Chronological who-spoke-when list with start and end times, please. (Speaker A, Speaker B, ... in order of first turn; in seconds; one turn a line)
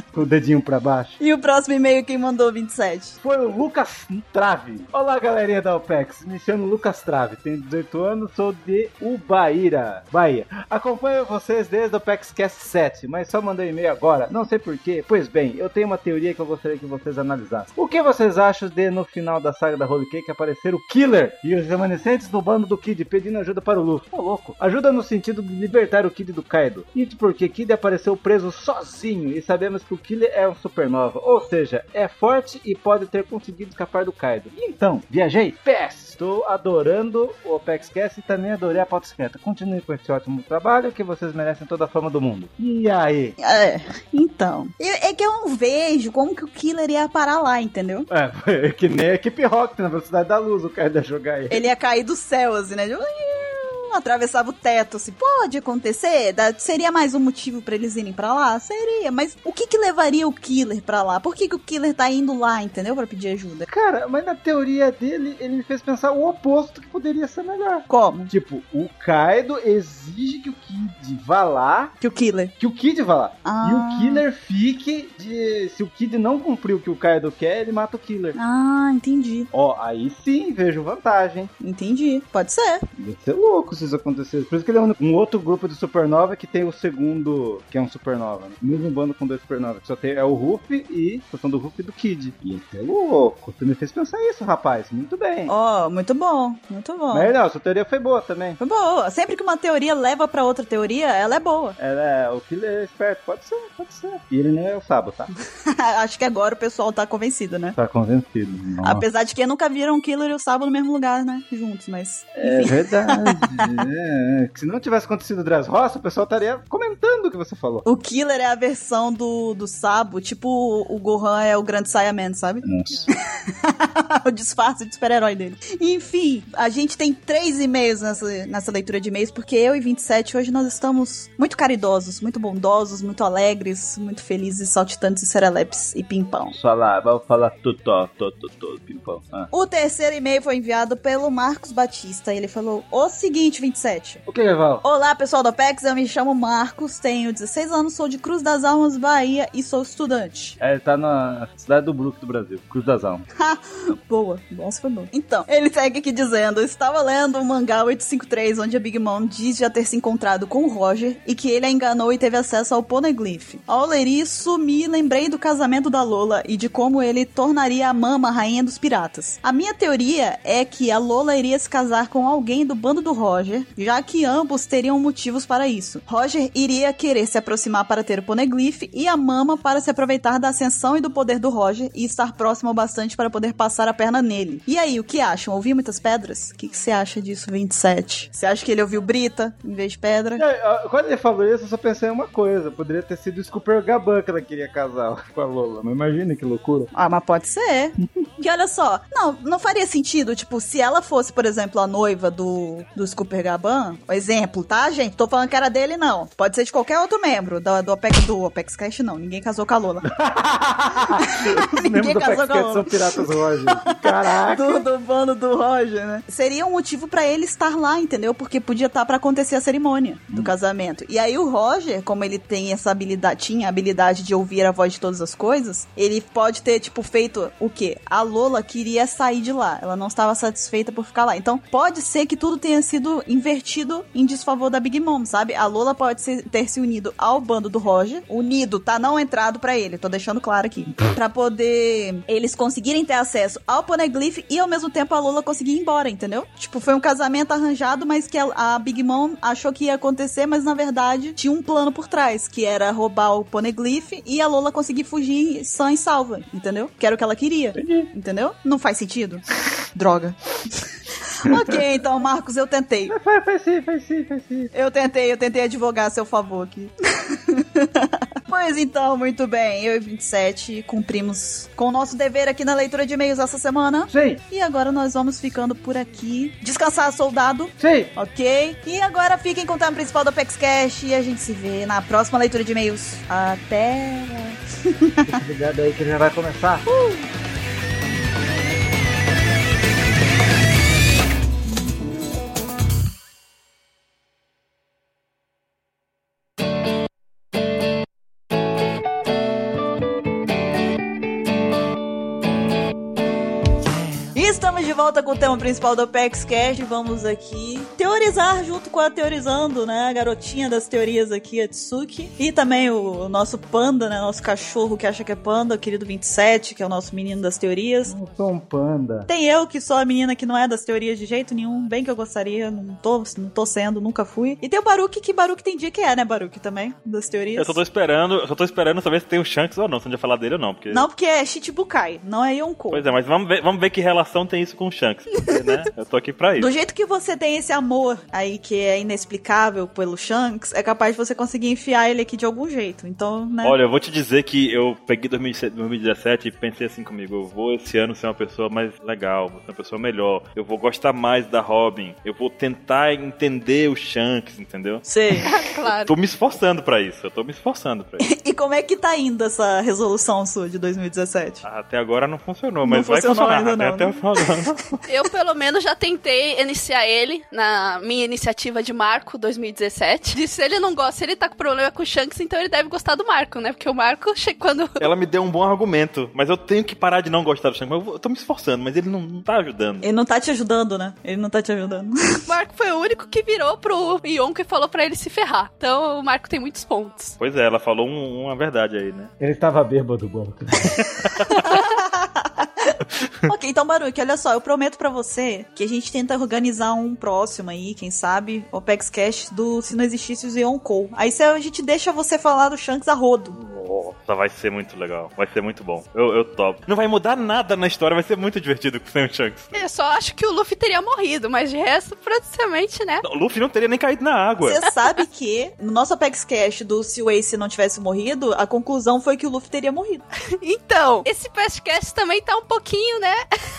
Speaker A: 0.1-1.2
Speaker B: 1.2-3.2
Speaker A: 3.2-43.4
Speaker B: 43.4-48.1
Speaker A: 48.1-51.7
Speaker B: 51.5-63.7
Speaker A: 63.7-71.9
Speaker B: 67.9-68.3
Speaker B: 72.0-72.5
Speaker A: 72.6-78.4
Speaker B: 73.4-74.2
Speaker B: 78.3-79.5
Speaker A: 79.5-81.5
Speaker B: 81.6-82.9
Speaker A: 83.0-95.5
Speaker B: 95.5-97.3
Speaker A: 97.1-98.6
Speaker B: 98.6-101.8
Speaker A: 101.8-105.3
Speaker B: 105.7-107.8
Speaker A: 107.8-109.1
Speaker B: 108.8-113.8
Speaker A: 112.4-117.8
Speaker B: 117.8-122.6
Speaker A: 122.6-123.1
Speaker B: 123.5-136.5
Speaker A: 136.5-139.5
Speaker B: 139.5-144.2
Speaker A: 144.2-144.8
Speaker B: 144.8-150.6
Speaker A: 150.6-153.3
Speaker B: 153.4-190.4
Speaker A: 190.4-196.9
Speaker B: 196.9-210.1
Speaker A: 210.1-214.9
Speaker B: 211.1-212.9
Speaker B: 214.0-260.7
Speaker A: 257.8-258.1
Speaker B: 261.4-263.1
Speaker A: 263.1-264.7
Speaker B: 264.7-285.3
Speaker A: 274.1-274.4
Speaker A: 277.8-278.1
Speaker A: 285.3-286.9
Speaker B: 286.9-287.2
Speaker B: 304.3-318.1
Speaker A: 318.1-319.3
Speaker B: 319.3-327.8
Speaker C: 327.6-331.1
Speaker B: 330.9-333.1
Speaker C: 332.9-336.7
Speaker B: 336.6-343.8
Speaker C: 343.6-355.1
Speaker B: 355.1-355.5
Speaker D: 355.4-356.1
Speaker C: 355.9-358.3
Speaker B: 358.2-361.6
Speaker C: 361.6-365.0
Speaker B: 362.8-364.6
Speaker D: 365.1-375.1
Speaker C: 375.0-380.1
Speaker B: 380.0-382.5
Speaker D: 382.4-387.4
Speaker C: 387.4-389.3
Speaker A: 389.4-391.1
Speaker B: 391.5-392.9
Speaker B: 393.4-403.6
Speaker C: 403.6-409.8
Speaker D: 409.7-413.2
Speaker C: 413.2-414.8
Speaker B: 414.6-420.2
Speaker D: 420.6-423.4